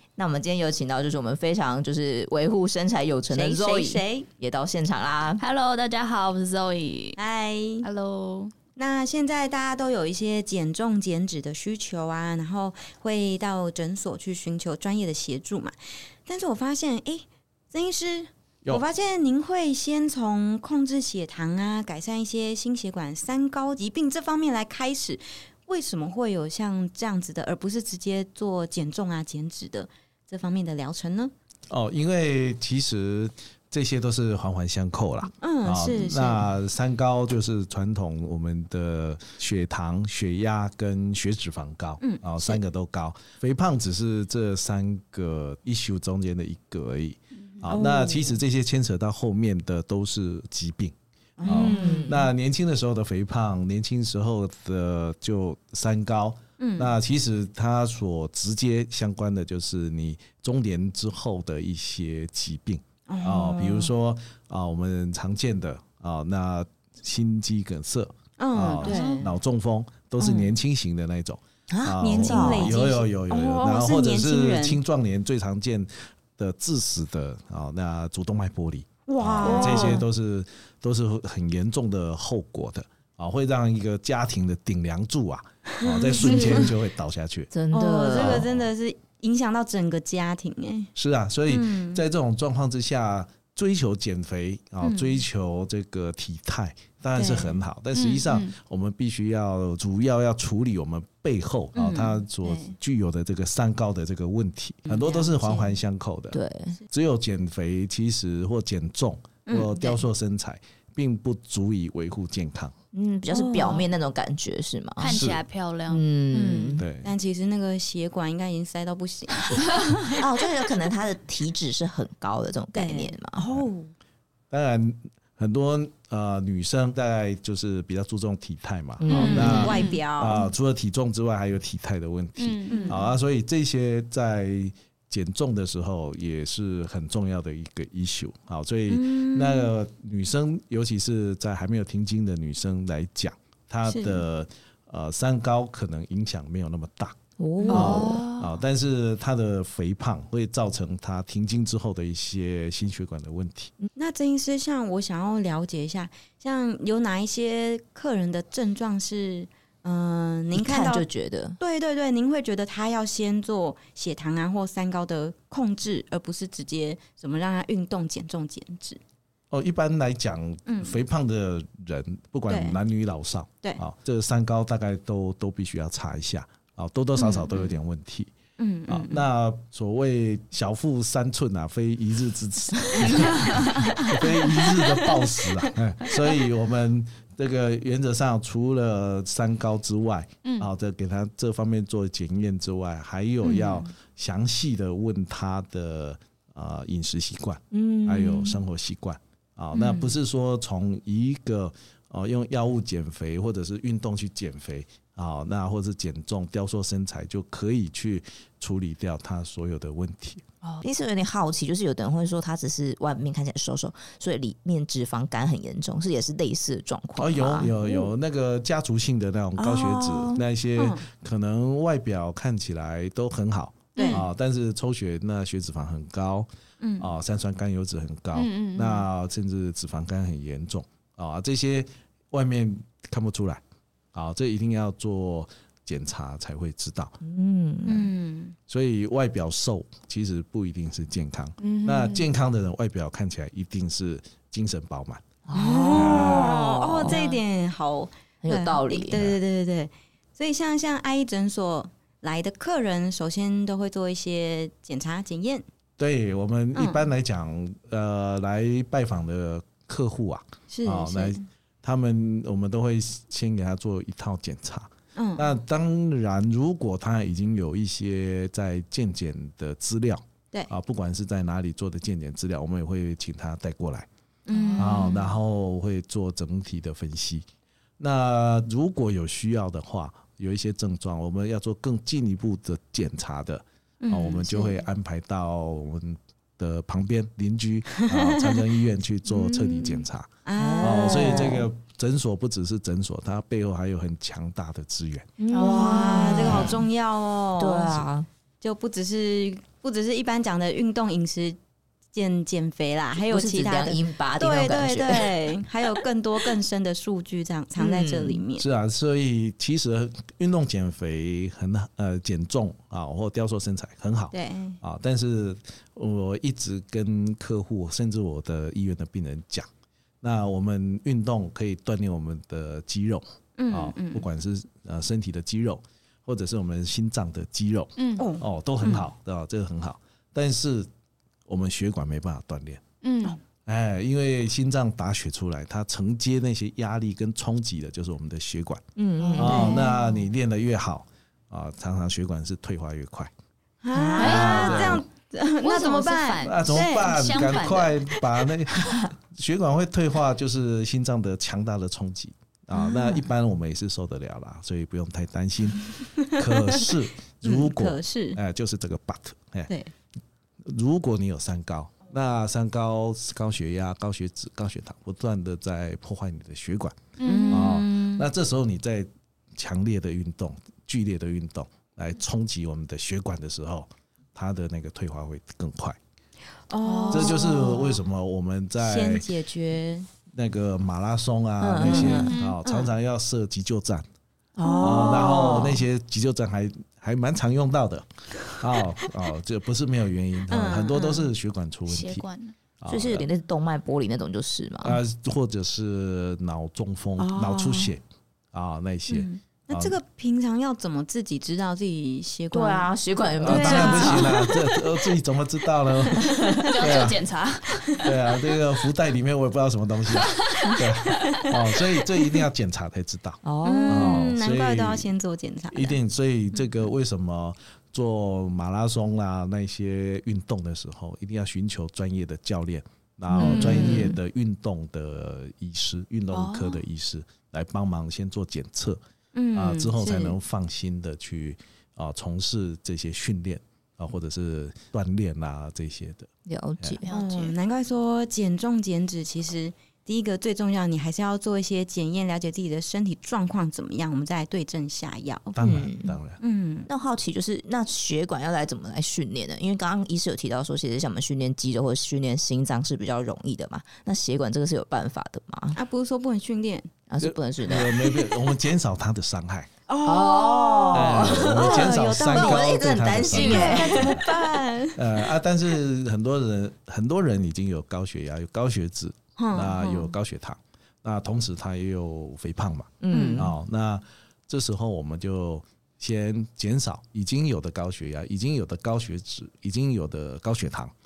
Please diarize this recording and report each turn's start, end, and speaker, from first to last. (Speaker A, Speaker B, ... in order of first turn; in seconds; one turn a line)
Speaker A: 0.2-5.4
Speaker B: 3.3-4.3
Speaker C: 5.4-7.2
Speaker B: 7.2-7.8
Speaker C: 7.8-8.5
Speaker B: 8.8-15.7
Speaker B: 16.2-31.3
Speaker D: 31.7-87.5
Speaker B: 35.4-36.5
Speaker B: 42.0-42.6
Speaker B: 47.7-48.4
Speaker B: 51.4-52.2
Speaker A: 51.4-52.2
Speaker B: 56.6-56.9
Speaker B: 63.1-63.9
Speaker B: 68.4-69.3
Speaker C: 68.8-69.3
Speaker B: 70.2-70.5
Speaker A: 71.7-72.8
Speaker B: 72.0-74.8
Speaker B: 79.1-80.0
Speaker A: 79.4-80.0
Speaker B: 85.8-86.7
Speaker A: 87.5-88.5
Speaker B: 87.7-90.9
Speaker D: 88.1-88.7
Speaker D: 90.9-106.4
Speaker B: 91.5-92.0
Speaker B: 94.8-95.2
Speaker B: 97.1-97.6
Speaker C: 97.9-98.5
Speaker B: 101.7-102.7
Speaker B: 104.9-105.8
Speaker A: 106.3-106.8
Speaker D: 106.9-112.7
Speaker B: 109.5-110.0
Speaker A: 112.9-115.2
Speaker B: 113.3-113.9
Speaker C: 115.0-116.0
Speaker D: 115.0-115.4
Speaker A: 115.9-116.8
Speaker B: 116.3-120.2
Speaker D: 116.8-117.1
Speaker A: 120.1-123.4
Speaker B: 122.7-123.9
Speaker D: 124.5-147.2
Speaker A: 129.0-129.8
Speaker B: 129.1-130.5
Speaker C: 129.1-130.0
Speaker C: 132.4-133.0
Speaker B: 132.7-133.1
Speaker B: 138.9-139.7
Speaker B: 143.9-144.2
Speaker A: 147.4-148.2
Speaker B: 147.6-148.2
Speaker C: 147.7-148.5
Speaker D: 147.7-153.7
Speaker B: 153.9-161.1
Speaker A: 160.5-161.6
Speaker B: 161.6-169.0
Speaker D: 169.5-178.3
Speaker B: 170.7-171.0
Speaker B: 172.5-172.8
Speaker B: 177.2-177.6
Speaker B: 178.6-179.2
Speaker D: 178.9-210.4
Speaker C: 183.0-184.1
Speaker B: 183.1-185.7
Speaker B: 193.4-193.9
Speaker A: 197.7-198.6
Speaker B: 199.7-200.1
Speaker A: 210.8-218.1
Speaker D: 217.2-226.5
Speaker A: 219.6-220.4
Speaker B: 220.8-221.0
Speaker B: 223.9-224.2
Speaker B: 226.8-227.1
Speaker D: 227.0-233.6
Speaker C: 228.3-229.1
Speaker D: 234.1-237.2
Speaker A: 237.2-238.1
Speaker B: 237.8-238.6
Speaker D: 238.7-245.2
Speaker C: 241.6-242.3
Speaker A: 245.5-247.3
Speaker B: 245.5-255.6
Speaker D: 245.9-246.5
Speaker A: 248.4-249.2
Speaker D: 249.1-249.4
Speaker D: 256.0-274.1
Speaker B: 256.7-257.0
Speaker B: 260.7-261.4
Speaker B: 265.1-265.5
Speaker B: 274.5-275.3
Speaker C: 274.5-275.2
Speaker D: 274.8-277.4
Speaker D: 278.0-295.3
Speaker B: 284.0-284.8
Speaker B: 288.1-288.6
Speaker C: 289.4-290.0
Speaker B: 290.4-291.6
Speaker A: 290.6-291.6
Speaker A: 295.4-296.8
Speaker C: 295.5-296.8
Speaker B: 295.6-298.0
Speaker A: 297.6-298.3
Speaker B: 298.6-301.6
Speaker B: 302.1-308.6
Speaker A: 303.3-305.4
Speaker A: 307.8-308.4
Speaker D: 308.6-319.7
Speaker B: 314.3-314.8
Speaker D: 320.2-330.9
Speaker B: 323.6-324.2
Speaker C: 328.0-328.3
Speaker B: 328.2-328.4
Speaker D: 331.5-332.8
Speaker C: 333.0-333.4
Speaker D: 333.6-338.8
Speaker A: 338.9-339.8
Speaker B: 339.4-340.1
Speaker D: 339.4-343.3
Speaker B: 343.8-347.2
Speaker A: 343.9-344.5
Speaker C: 344.2-345.0
Speaker D: 344.2-345.0
Speaker C: 345.6-348.1
Speaker D: 346.4-359.7
Speaker B: 352.7-353.2
Speaker B: 356.2-356.9
Speaker B: 357.4-358.4
Speaker D: 360.6-367.0
Speaker C: 367.2-367.8
Speaker B: 367.2-368.3
Speaker D: 367.5-376.0
Speaker B: 376.7-378.0
Speaker C: 376.8-377.4
Speaker D: 377.1-379.3
Speaker B: 378.8-380.1
Speaker D: 380.3-384.1
Speaker A: 381.6-382.3
Speaker B: 381.9-382.9
Speaker C: 382.0-382.6
Speaker A: 384.6-385.8
Speaker B: 384.6-385.8
Speaker D: 384.8-392.2
Speaker B: 390.5-391.3
Speaker C: 391.9-392.5
Speaker D: 392.8-393.3
Speaker A: 392.9-395.0
Speaker D: 394.8-398.0
Speaker A: 397.2-397.9
Speaker D: 398.5-399.9
Speaker B: 399.1-402.9
Speaker A: 402.5-404.4
Speaker D: 403.4-407.2
Speaker B: 403.4-404.5
Speaker A: 406.2-406.6
Speaker C: 406.6-408.1
Speaker D: 408.0-415.1
Speaker C: 410.2-410.8
Speaker A: 413.4-414.3
Speaker B: 413.6-416.0
Speaker D: 415.7-429.0
Speaker B: 423.3-424.1
Speaker A: 423.3-424.1
Speaker C: 423.4-424.1
Speaker C: 426.3-426.8
Speaker B: 429.3-430.4
Speaker D: 429.5-436.3
Speaker A: 436.4-437.1
Speaker C: 437.0-437.6
Speaker B: 437.1-445.6
Speaker D: 445.5-446.4
Speaker A: 445.6-446.2
Speaker B: 446.4-446.9
Speaker A: 446.9-455.8
Speaker B: 455.7-456.9
Speaker A: 457.1-458.2
Speaker D: 457.2-459.7
Speaker B: 459.9-465.1
Speaker A: 460.0-464.3
Speaker D: 460.9-464.3
Speaker D: 464.9-480.9
Speaker B: 469.4-470.1
Speaker A: 473.0-473.5
Speaker B: 473.1-473.5